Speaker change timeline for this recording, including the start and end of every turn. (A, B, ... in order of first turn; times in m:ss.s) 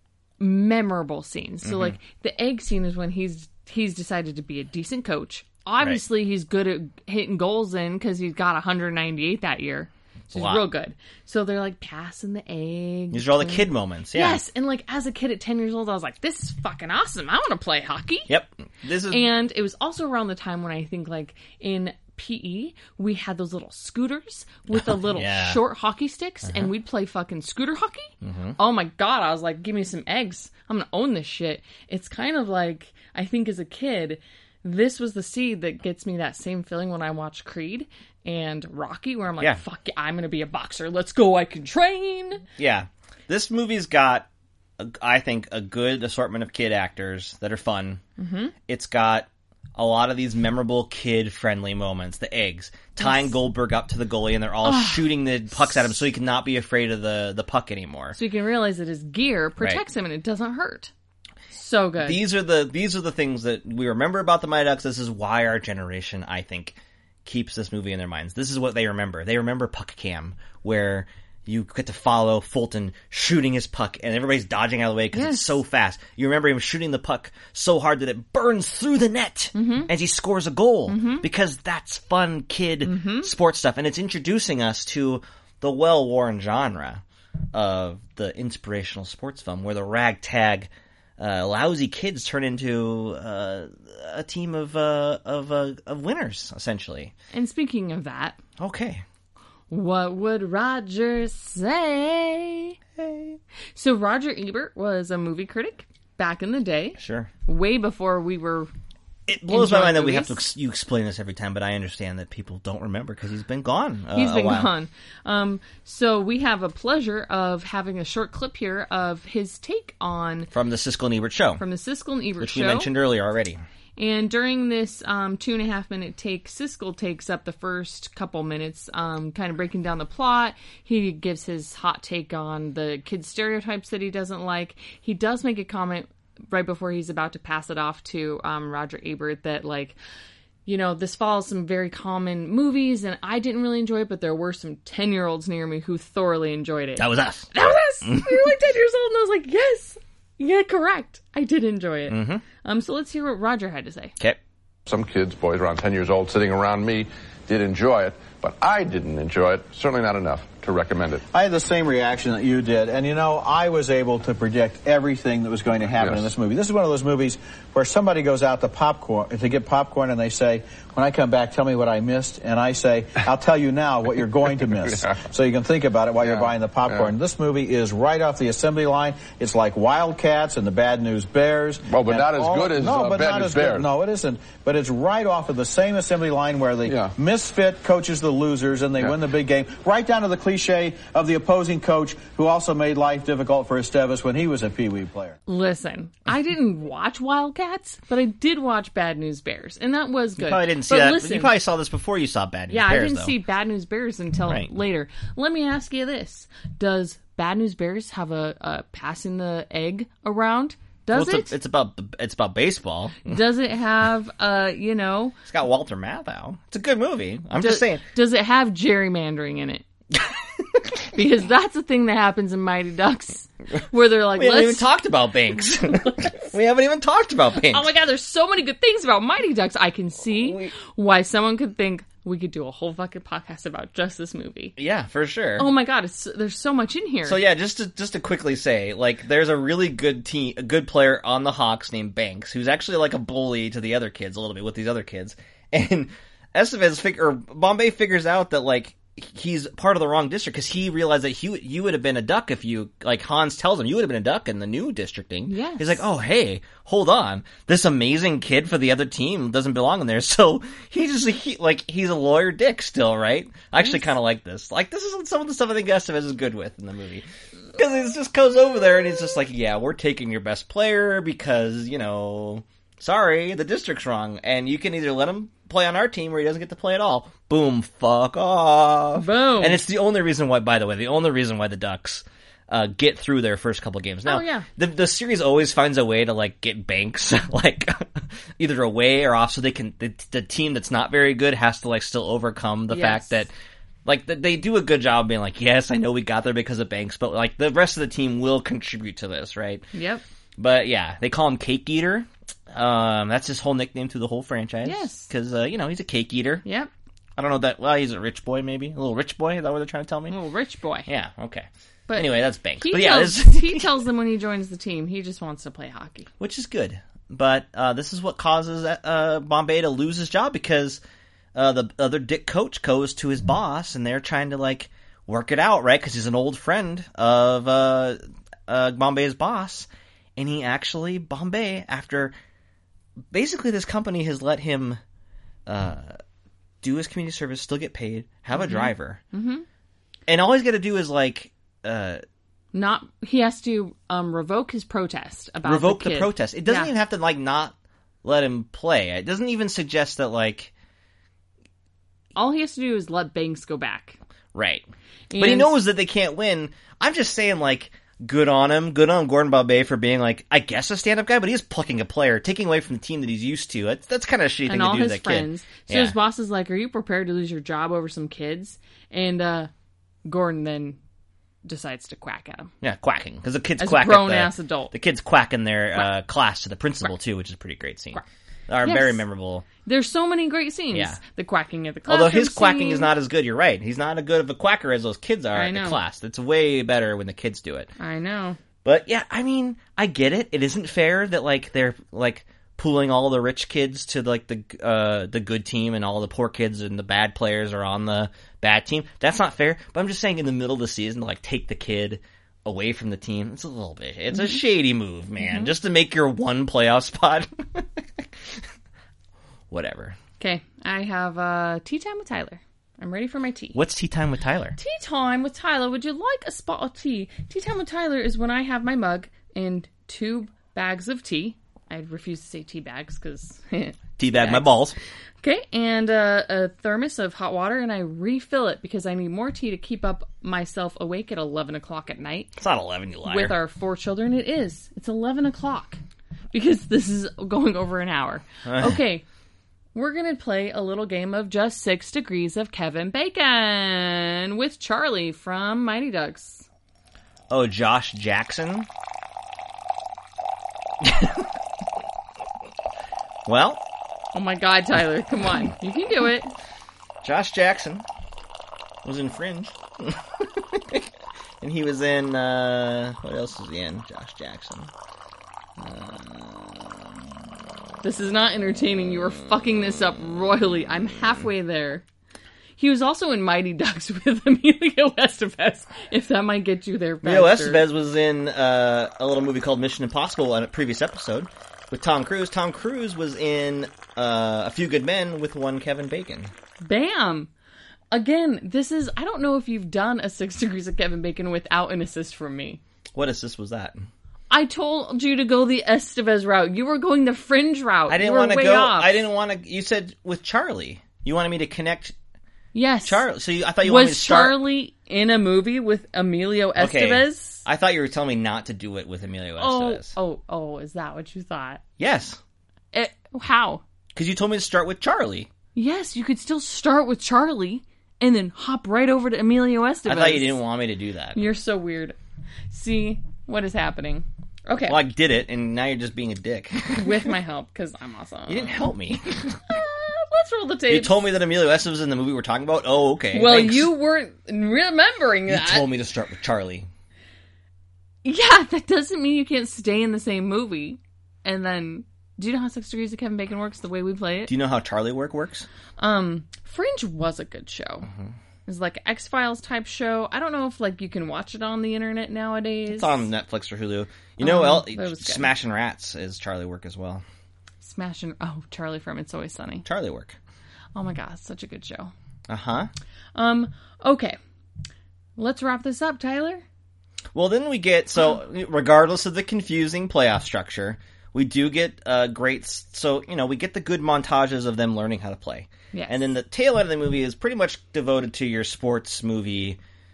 0:00.4-0:18.3 A
0:01.6-0:02.0 B
0:10.3-0:10.6 B
0:13.1-0:14.4 B
0:18.3-0:19.2 B
0:19.1-0:42.4 A
0:24.7-0:25.6 B
0:26.4-0:26.7 B
0:28.2-0:28.6 B
0:42.6-0:48.0 B
0:48.2-0:48.5 A
0:48.7-0:58.2 B
0:53.0-0:53.3 A
0:54.6-0:55.1 A
0:58.1-1:00.9 A
1:01.5-1:02.2 A
1:02.0-1:37.1 B
1:15.1-1:15.6 A
1:19.5-1:19.9 A
1:20.9-1:21.2 A
1:22.8-1:23.3 A
1:37.3-1:38.4 A
1:38.6-1:39.0 B
1:39.7-1:42.7 A
1:43.0-1:43.4 B
1:43.8-1:48.7 A
1:47.0-1:47.3 B
1:49.3-1:54.7 B
1:49.5-1:50.4 A
1:54.1-2:00.5 A
2:00.5-2:01.6 B
2:01.6-2:02.9 A
2:02.4-2:03.6 B
2:04.0-2:20.0 A
2:20.6-2:34.1 A
2:27.0-2:28.5 B
2:32.1-2:32.4 B
2:34.8-2:41.2 C
2:41.3-3:15.4 D
2:46.0-2:46.3 C
2:56.2-2:57.1 C
3:01.9-3:03.9 C
3:06.8-3:07.1 C
3:15.5-3:21.5 A
3:20.4-3:23.3 B
3:22.7-3:31.5 A
3:31.1-3:33.4 B
3:33.2-3:35.4 A
3:35.5-3:38.0 B
3:37.6-3:39.8 A
3:41.1-3:44.9 A
3:44.3-3:47.9 B
3:45.9-3:46.5 A
3:47.6-3:54.8 A
3:50.4-3:50.7 B
3:54.8-3:55.7 B
3:55.6-3:57.4 A
3:57.2-4:53.5 B
4:15.5-4:16.0 A
4:39.2-4:39.8 A
4:44.2-4:44.7 A
4:52.9-4:53.4 A
4:54.0-4:59.9 B
4:59.9-5:00.2 A
5:00.6-5:06.6 B
5:04.8-5:05.3 A
5:06.6-5:06.9 A
5:07.4-5:10.4 B
5:10.3-5:11.1 A
5:11.1-5:14.0 B
5:12.1-5:16.3 A
5:16.4-5:21.0 B
5:21.5-5:32.3 B
5:33.3-5:35.0 B
5:35.6-5:36.2 B
5:36.8-5:39.2 B
5:38.5-5:39.6 A
5:40.3-5:42.2 B
5:42.7-5:46.9 A
5:45.6-5:50.7 B
5:52.4-5:54.2 A
5:54.5-6:06.2 B
5:55.3-5:55.8 A
6:04.7-6:09.7 A
6:10.2-6:11.0 A
6:11.6-6:12.7 A
6:12.8-6:19.6 B
6:13.8-6:14.9 A
6:18.8-6:19.2 A
6:19.8-6:23.1 A
6:20.9-6:21.2 B
6:22.1-6:27.9 B
6:25.5-6:26.0 A
6:28.0-6:28.6 A
6:28.8-6:48.6 B
6:45.4-6:45.7 A
6:49.7-6:50.2 B
6:50.4-6:53.8 A
6:53.7-6:54.8 B
6:54.8-7:04.8 A
7:04.2-7:05.0 B
7:05.4-7:12.6 A
7:12.6-7:13.6 B
7:13.2-7:16.0 A
7:16.5-7:19.2 A
7:18.6-7:19.0 B
7:19.9-7:26.6 A
7:27.5-7:28.9 B
7:31.0-7:31.4 B
7:33.4-7:33.8 B
7:34.3-7:36.5 A
7:37.2-7:38.0 B
7:39.0-7:41.1 B
7:41.6-7:44.9 B
7:48.0-7:52.0 A
7:52.8-7:57.8 A
7:57.2-8:06.5 B
8:06.8-8:07.5 A
8:08.1-8:12.8 A
8:13.1-8:14.1 B
8:14.5-8:19.2 A
8:18.1-8:22.1 B
8:22.7-8:23.3 A
8:23.0-8:24.6 B
8:23.8-8:27.6 A
8:26.8-8:30.1 B
8:29.6-8:31.8 A
8:32.0-8:32.4 B
8:32.9-8:33.8 A
8:34.1-8:35.5 B
8:35.7-8:40.6 A
8:40.0-8:41.4 B
8:41.3-8:42.2 A
8:42.7-8:45.0 A
8:44.8-8:47.3 B
8:47.0-8:48.8 A
8:48.5-8:49.6 B
8:49.7-8:51.2 A
8:50.9-8:53.9 B
8:53.3-8:55.9 A
8:55.5-8:56.9 B
8:58.2-9:04.5 A
9:04.5-9:05.7 B
9:06.0-9:08.1 A
9:08.6-9:13.2 A
9:12.9-9:17.2 B
9:14.4-9:15.5 A
9:17.8-9:19.8 A
9:19.8-9:20.4 B
9:20.9-9:22.1 A
9:22.5-9:22.9 B
9:23.3-9:24.4 A
9:25.4-9:26.6 A
9:27.3-9:39.8 B
9:35.9-9:36.2 A